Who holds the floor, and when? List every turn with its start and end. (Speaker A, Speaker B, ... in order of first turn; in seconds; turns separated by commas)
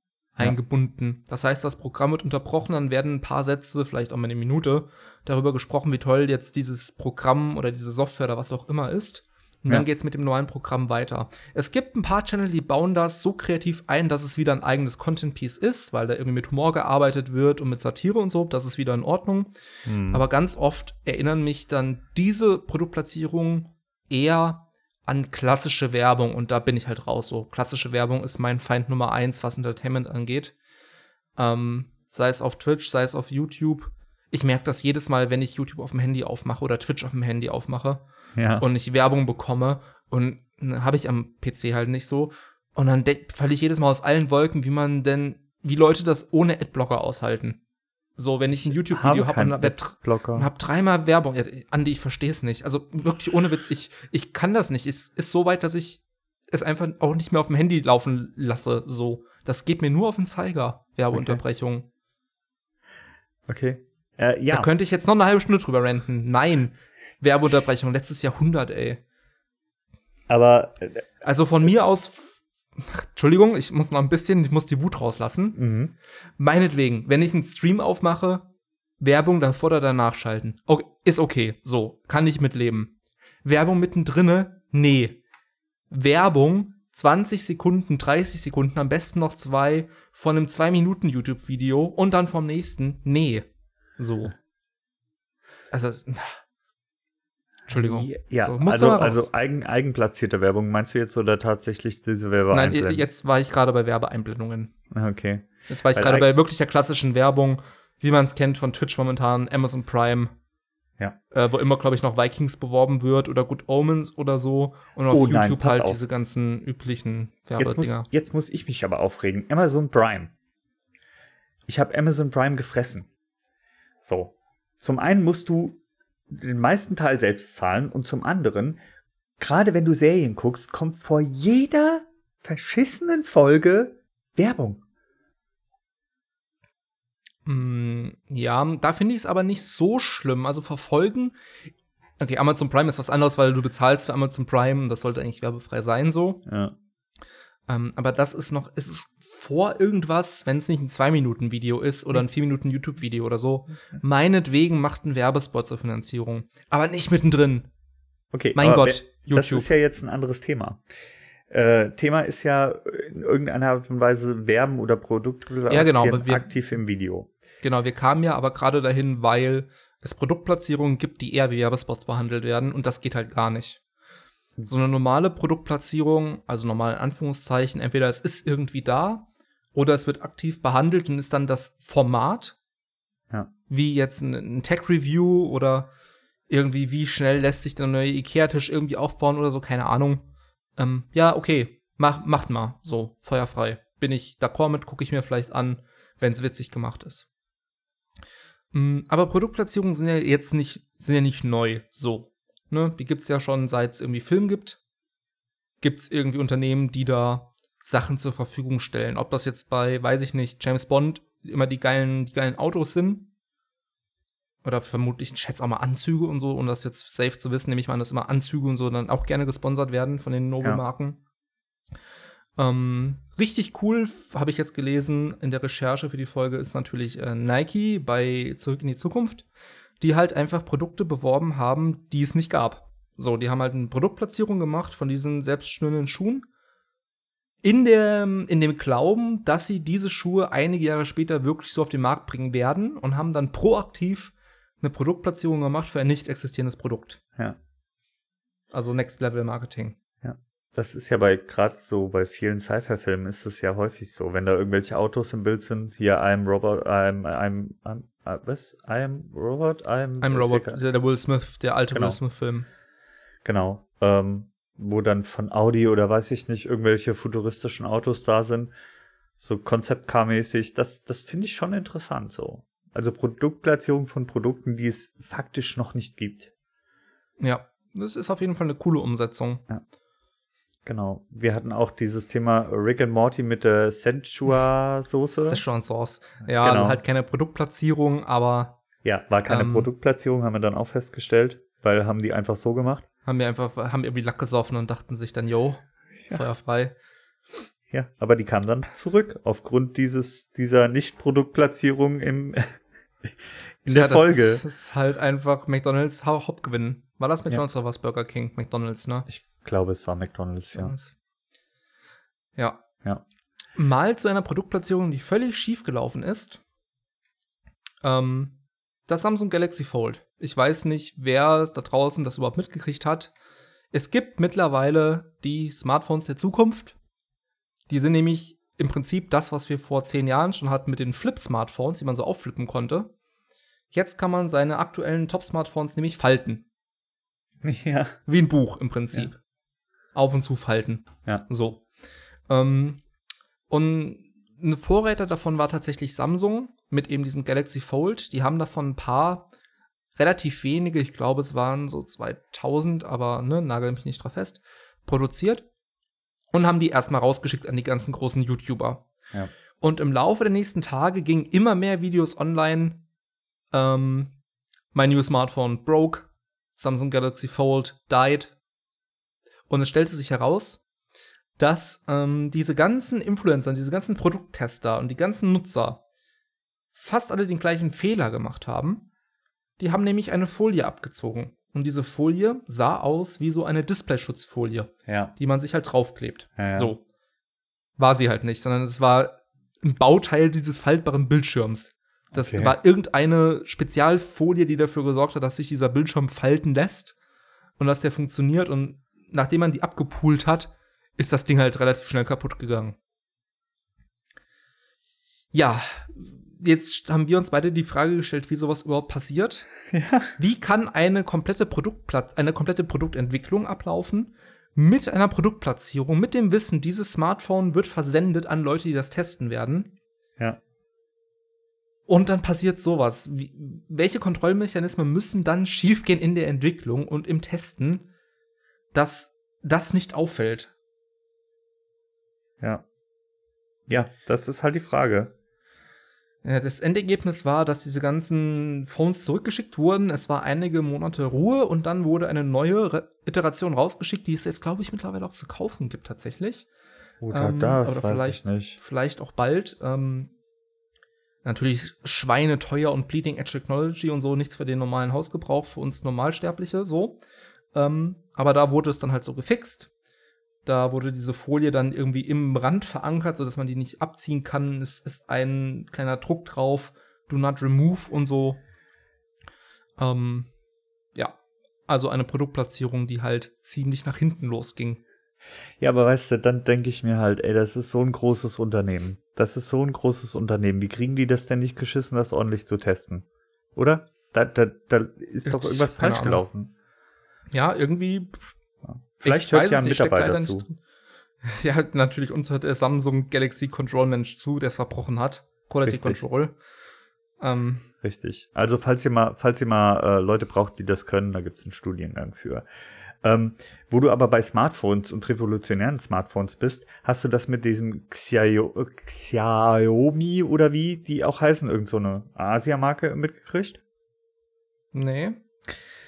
Speaker A: 0.3-19.5, Speaker B: 19.9-20.2, Speaker A: 20.1-30.5, Speaker A: 31.4-38.0, Speaker B: 38.4-38.6, Speaker A: 38.6-47.6, Speaker A: 48.2-61.9, Speaker B: 48.6-50.5, Speaker B: 61.1-61.4, Speaker B: 63.5-64.7, Speaker A: 64.5-69.0, Speaker B: 70.3-71.0, Speaker A: 71.2-75.6, Speaker B: 75.5-75.9, Speaker A: 76.4-78.5, Speaker A: 79.0-85.2, Speaker A: 85.9-93.5, Speaker A: 94.0-94.3, Speaker A: 95.7-96.4, Speaker B: 97.7-103.0, Speaker A: 97.7-99.3, Speaker A: 102.5-104.7, Speaker B: 104.9-106.3, Speaker A: 105.7-110.3, Speaker A: 111.3-118.1, Speaker B: 115.1-116.0, Speaker B: 117.6-120.3, Speaker B: 121.7-123.1, Speaker B: 124.0-128.8, Speaker B: 129.4-134.8, Speaker A: 137.4-141.3, Speaker A: 142.2-146.4, Speaker B: 146.4-146.7, Speaker A: 147.7-157.7, Speaker B: 158.3-160.8, Speaker A: 158.5-159.7, Speaker B: 161.5-167.3, Speaker A: 165.7-166.5, Speaker A: 167.6-173.8, Speaker A: 174.7-182.6, Speaker A: 183.7-185.9, Speaker A: 186.5-197.2, Speaker A: 198.7-204.8, Speaker A: 205.8-213.3, Speaker A: 214.6-221.2, Speaker A: 222.6-229.4, Speaker A: 230.0-236.4, Speaker A: 237.6-247.2, Speaker A: 248.7-249.9, Speaker B: 250.2-260.8, Speaker A: 260.2-262.7, Speaker B: 261.9-262.2, Speaker B: 263.4-268.7, Speaker B: 269.4-276.5, Speaker A: 277.4-279.6, Speaker B: 280.9-285.6, Speaker A: 285.4-288.8, Speaker B: 286.4-287.0, Speaker B: 289.0-293.0, Speaker A: 289.4-289.9, Speaker A: 293.2-296.9, Speaker B: 297.9-302.7, Speaker B: 303.8-304.6, Speaker A: 303.8-309.2, Speaker B: 309.3-310.9, Speaker A: 310.7-311.1, Speaker A: 312.6-312.8, Speaker A: 313.8-316.6, Speaker A: 318.0-318.5, Speaker A: 319.1-323.3, Speaker A: 323.9-326.9, Speaker A: 327.9-333.1, Speaker A: 333.9-336.6, Speaker B: 337.6-338.2, Speaker A: 338.3-339.4, Speaker A: 340.1-341.8, Speaker A: 342.5-343.0, Speaker A: 343.7-349.5, Speaker A: 350.1-355.6, Speaker A: 356.5-359.0, Speaker A: 359.8-363.0, Speaker A: 363.7-364.3, Speaker A: 364.9-368.5, Speaker A: 369.7-370.8, Speaker A: 371.6-376.0, Speaker A: 376.9-379.1, Speaker A: 379.8-387.0, Speaker B: 385.1-385.3, Speaker B: 386.6-386.9, Speaker A: 388.0-397.1, Speaker B: 392.3-392.8, Speaker A: 397.8-402.9, Speaker A: 405.5-409.7, Speaker B: 409.9-410.3, Speaker A: 410.4-419.9, Speaker A: 422.1-428.1, Speaker A: 428.9-430.7, Speaker B: 433.9-435.3, Speaker A: 436.4-446.7, Speaker B: 447.2-448.8, Speaker A: 447.3-450.3, Speaker A: 451.4-457.2, Speaker A: 457.7-459.9, Speaker A: 460.6-468.6, Speaker A: 470.0-470.5, Speaker A: 471.9-475.0, Speaker B: 475.8-486.7, Speaker A: 485.4-486.4, Speaker A: 487.5-488.4, Speaker B: 488.8-490.6, Speaker A: 489.2-490.8, Speaker A: 491.4-496.5, Speaker B: 495.9-496.2, Speaker A: 497.4-497.9, Speaker B: 498.0-502.6, Speaker B: 503.2-513.8, Speaker A: 514.9-515.4